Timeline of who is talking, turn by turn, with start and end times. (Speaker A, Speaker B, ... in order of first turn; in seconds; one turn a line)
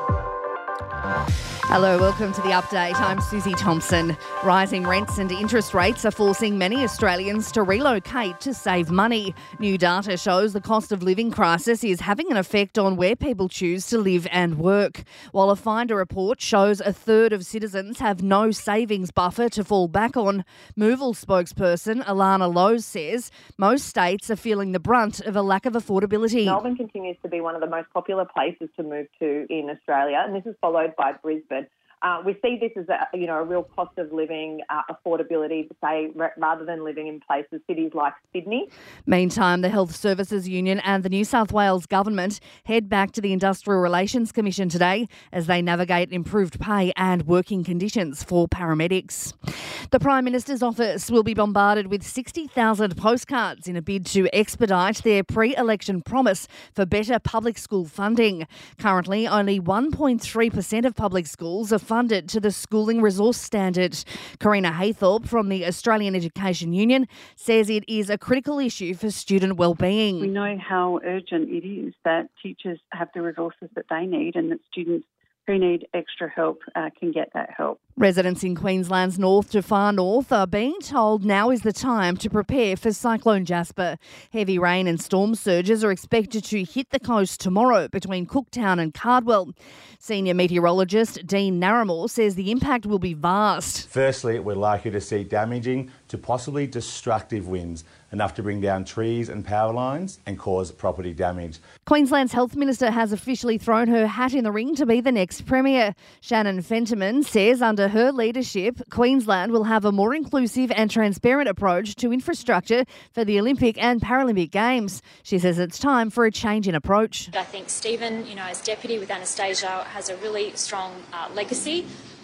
Speaker A: 1.7-26.6
Speaker B: 26.4-38.7
Speaker A: 39.1-49.3
Speaker A: 49.9-70.3
Speaker C: 70.2-77.8
Speaker A: 78.0-93.9
Speaker D: 93.9-101.6
Speaker A: 101.9-117.3
Speaker E: 117.3-121.9